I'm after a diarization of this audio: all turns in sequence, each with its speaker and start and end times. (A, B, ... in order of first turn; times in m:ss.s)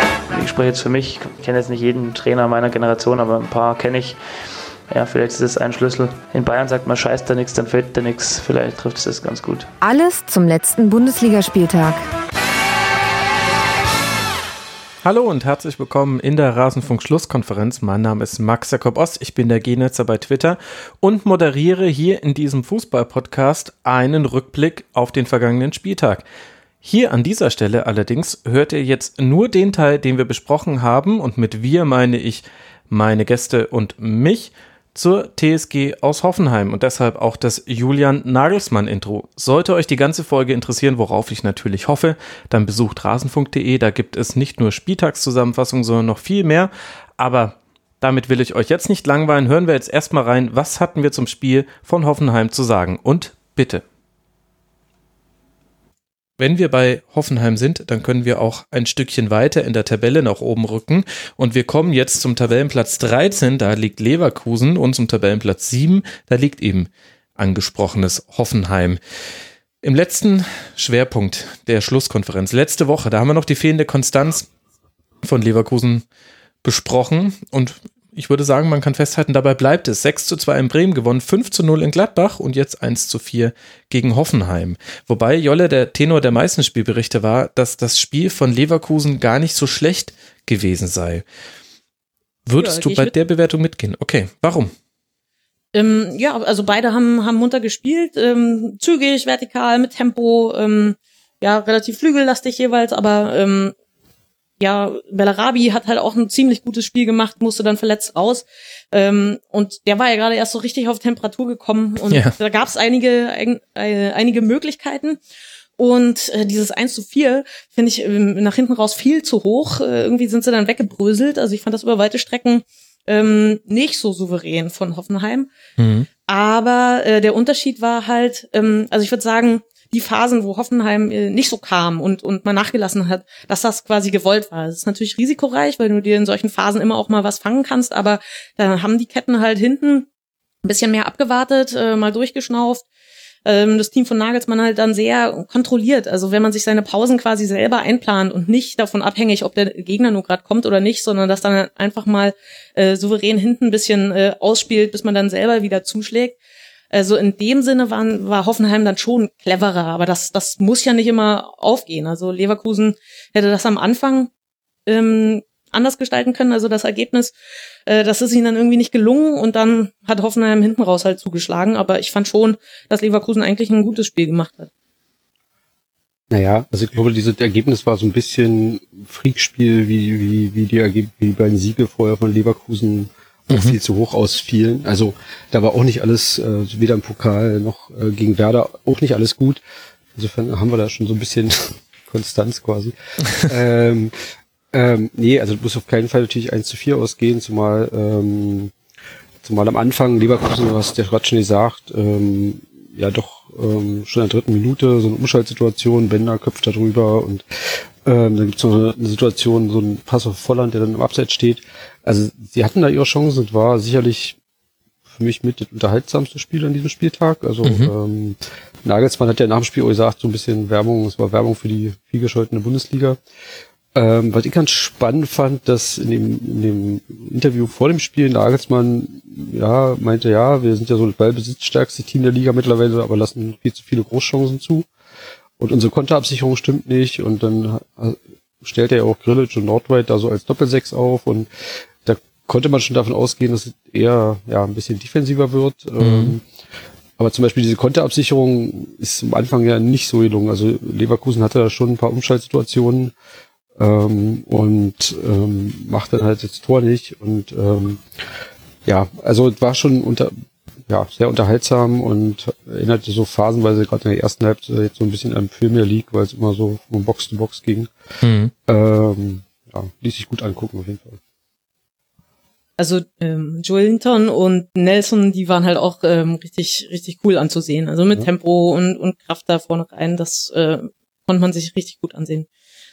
0:00.3-0:04.2 A
0:04.9-0:09.6 A
0:09.8-0:12.0 B
0:15.0-0:26.2 C
0:26.8-0:53.8 C
0:56.4-1:09.0 C
1:09.8-1:14.4 C
1:15.2-1:16.0 C
1:16.6-1:31.2 C
1:32.4-1:34.7 C
1:32.6-1:33.1 D
1:35.7-1:43.7 D
1:44.6-1:55.2 D
1:52.1-1:52.3 C
1:55.8-2:05.5 D
2:05.8-2:06.1 C
2:06.3-2:20.1 D
2:20.6-2:22.8 D
2:23.4-2:36.4 D
2:36.9-2:44.3 D
2:44.9-2:47.3 D
2:47.9-2:54.7 D
2:56.3-3:09.6 E
3:10.2-3:14.1 E
3:14.7-3:18.7 E
3:19.4-3:27.4 E
3:28.0-3:34.4 E
3:35.1-3:43.2 E
3:37.6-3:37.9 C
3:44.0-3:54.9 E
3:55.6-4:01.5 E
4:02.0-4:06.4 E
4:06.0-4:06.4 C
4:07.2-4:13.1 E
4:13.8-4:18.0 E
4:18.8-4:20.3 E
4:20.9-4:27.9 E
4:28.2-4:28.5 C
4:28.7-4:31.2 E
4:32.8-4:42.5 D